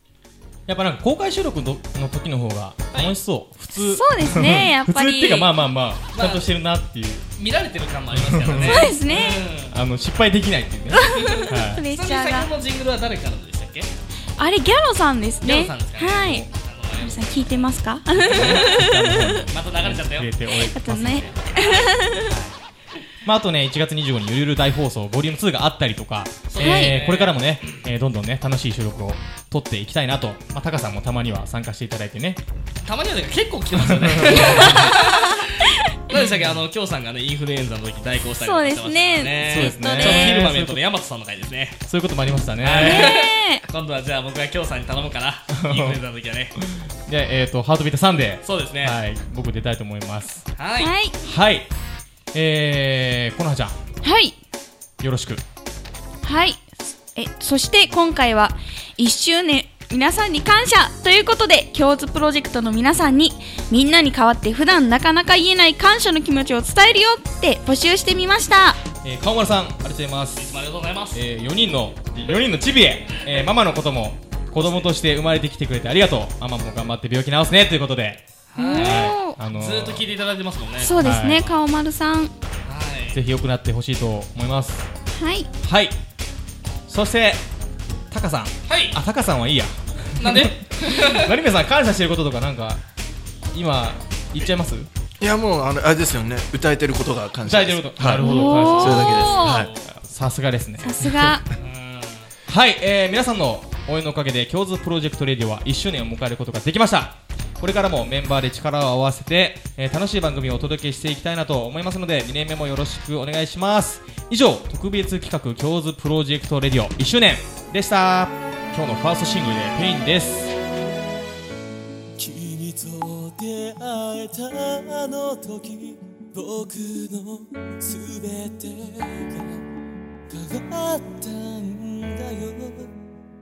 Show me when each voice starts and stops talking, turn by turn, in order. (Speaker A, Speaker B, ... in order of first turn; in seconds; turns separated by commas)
Speaker A: 0.7-7.2, Speaker B: 3.8-5.5, Speaker C: 6.1-6.5, Speaker C: 7.4-9.8, Speaker A: 8.1-8.8, Speaker B: 8.6-9.5, Speaker A: 9.7-11.8, Speaker B: 11.0-12.5, Speaker C: 11.1-13.9, Speaker B: 14.4-19.4, Speaker C: 15.4-17.5, Speaker A: 18.1-21.4, Speaker C: 19.5-20.3, Speaker B: 20.6-22.3, Speaker C: 21.6-22.0, Speaker A: 22.3-22.5, Speaker A: 23.2-32.4, Speaker C: 26.5-27.8, Speaker B: 26.6-26.9, Speaker C: 32.8-35.5, Speaker A: 33.8-34.9, Speaker C: 36.1-41.8, Speaker A: 36.2-36.6, Speaker B: 38.4-40.4, Speaker A: 39.4-40.8, Speaker A: 41.9-43.1, Speaker C: 42.6-46.5, Speaker B: 42.8-43.6, Speaker A: 45.5-46.0, Speaker A: 47.1-50.5, Speaker C: 48.4-49.0, Speaker C: 50.6-50.9, Speaker B: 50.8-51.1, Speaker A: 51.2-51.7, Speaker A: 52.3-53.8, Speaker B: 54.0-54.4, Speaker A: 55.0-55.4, Speaker B: 56.2-68.8, Speaker A: 69.0-70.5, Speaker C: 70.4-71.2, Speaker A: 71.1-78.2, Speaker C: 74.5-74.9, Speaker C: 78.5-81.5, Speaker B: 78.6-79.4, Speaker A: 78.8-80.1, Speaker B: 80.8-82.3, Speaker A: 81.0-81.4, Speaker C: 82.7-83.2, Speaker A: 83.1-84.9, Speaker B: 85.1-85.5, Speaker A: 85.6-86.0, Speaker A: 86.9-87.4, Speaker A: 88.1-92.8, Speaker C: 88.7-89.0, Speaker C: 90.2-91.3, Speaker A: 93.5-94.9, Speaker D: 95.2-99.7, Speaker A: 97.5-99.2, Speaker B: 98.2-99.7, Speaker C: 99.5-99.9, Speaker A: 99.9-101.0, Speaker B: 100.8-101.5, Speaker C: 101.6-102.3, Speaker A: 102.5-120.5, Speaker E: 122.2-129.6, Speaker E: 130.3-132.9